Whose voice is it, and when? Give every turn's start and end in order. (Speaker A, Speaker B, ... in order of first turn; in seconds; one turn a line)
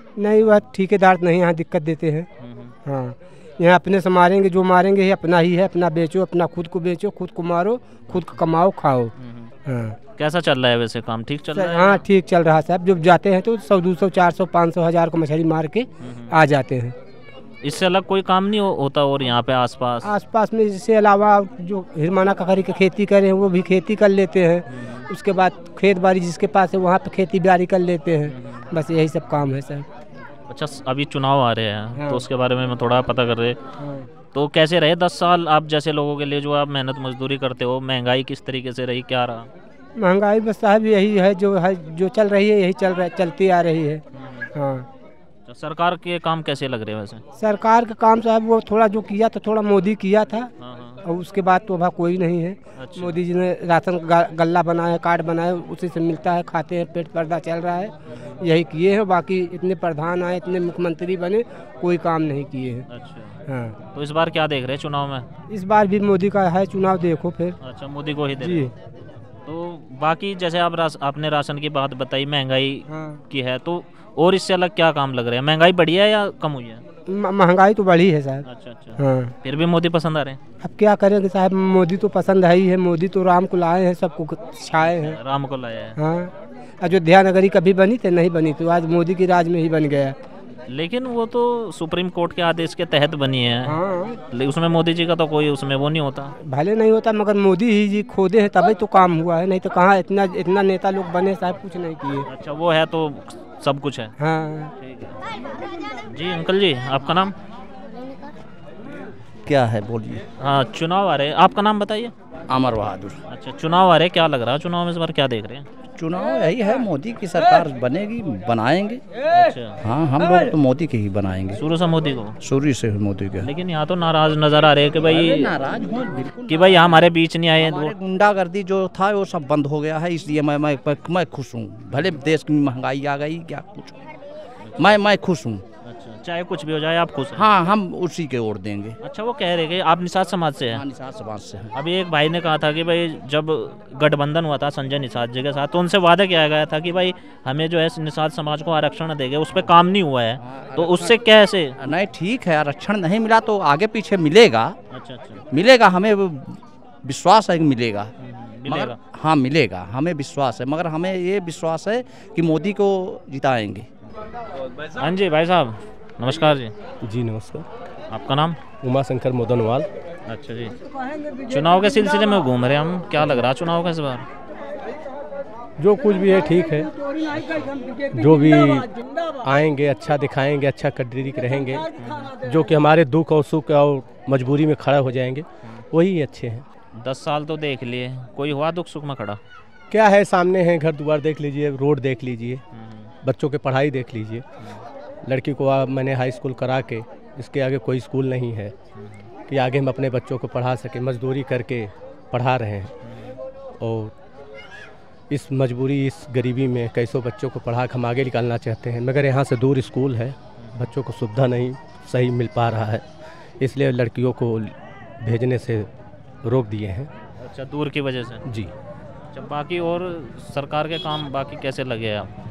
Speaker A: 0.2-2.3
Speaker B: 2.4-2.8
Speaker A: 2.9-9.1
Speaker B: 8.1-8.4
Speaker B: 9.2-9.5
Speaker A: 9.7-10.0
Speaker B: 10.2-12.0
Speaker A: 11.5-16.9
Speaker B: 16.0-16.3
Speaker B: 17.6-20.1
Speaker A: 20.0-29.9
Speaker B: 24.7-25.1
Speaker B: 28.3-28.6
Speaker B: 30.5-33.6
Speaker A: 32.0-32.2
Speaker A: 33.8-34.1
Speaker B: 34.3-39.5
Speaker A: 40.0-44.0
Speaker B: 44.1-44.5
Speaker A: 44.5-44.9
Speaker B: 45.5-47.2
Speaker A: 47.4-50.5
Speaker B: 50.6-51.0
Speaker A: 51.0-62.9
Speaker B: 52.8-53.2
Speaker B: 58.1-58.4
Speaker B: 62.9-63.4
Speaker A: 63.5-63.8
Speaker B: 63.9-65.3
Speaker A: 65.5-67.6
Speaker B: 67.6-68.7
Speaker A: 68.4-68.7
Speaker B: 69.5-76.8
Speaker A: 72.9-73.2
Speaker A: 77.1-78.5
Speaker B: 78.5-80.4
Speaker A: 79.0-79.3
Speaker A: 80.6-85.2
Speaker B: 84.8-86.0
Speaker A: 86.0-90.2
Speaker B: 90.7-93.8
Speaker A: 93.7-94.2
Speaker B: 94.3-96.3
Speaker A: 96.5-102.2
Speaker B: 102.3-104.1
Speaker A: 104.2-104.7
Speaker B: 104.8-105.2
Speaker B: 106.1-107.3
Speaker C: 109.5-110.2
Speaker B: 110.4-112.1
Speaker C: 112.5-113.2
Speaker B: 113.3-115.7
Speaker C: 116.0-119.0
Speaker B: 119.3-119.8
Speaker C: 119.8-121.6
Speaker B: 121.6-122.4
Speaker C: 122.4-123.5
Speaker B: 123.4-125.5
Speaker C: 125.0-127.0
Speaker B: 126.5-127.9
Speaker C: 127.5-134.0
Speaker B: 134.7-135.0
Speaker C: 134.8-135.6
Speaker B: 135.8-137.4
Speaker C: 137.3-139.0
Speaker B: 139.0-140.8
Speaker C: 140.7-141.7
Speaker B: 141.7-151.8
Speaker C: 150.4-151.2
Speaker C: 151.8-154.8
Speaker B: 154.9-155.4
Speaker C: 155.5-158.1
Speaker B: 158.2-159.0
Speaker C: 158.7-163.9
Speaker B: 165.0-166.7
Speaker D: 167.1-167.7
Speaker B: 168.1-168.6
Speaker D: 168.8-169.9
Speaker B: 170.3-170.8
Speaker B: 171.5-174.3
Speaker D: 175.8-176.9
Speaker B: 177.3-177.8
Speaker D: 178.1-178.9
Speaker D: 179.4-181.8
Speaker D: 182.4-186.6
Speaker B: 187.0-189.4
Speaker D: 189.9-192.6
Speaker B: 192.8-193.1
Speaker D: 193.2-194.4
Speaker D: 195.3-198.7
Speaker B: 199.0-199.3
Speaker D: 199.5-202.9
Speaker B: 203.1-203.4
Speaker D: 203.8-204.1
Speaker D: 205.3-213.1
Speaker B: 210.6-210.9
Speaker D: 213.6-215.9
Speaker D: 216.4-217.1
Speaker B: 217.3-218.4
Speaker D: 218.5-218.7
Speaker B: 219.3-222.3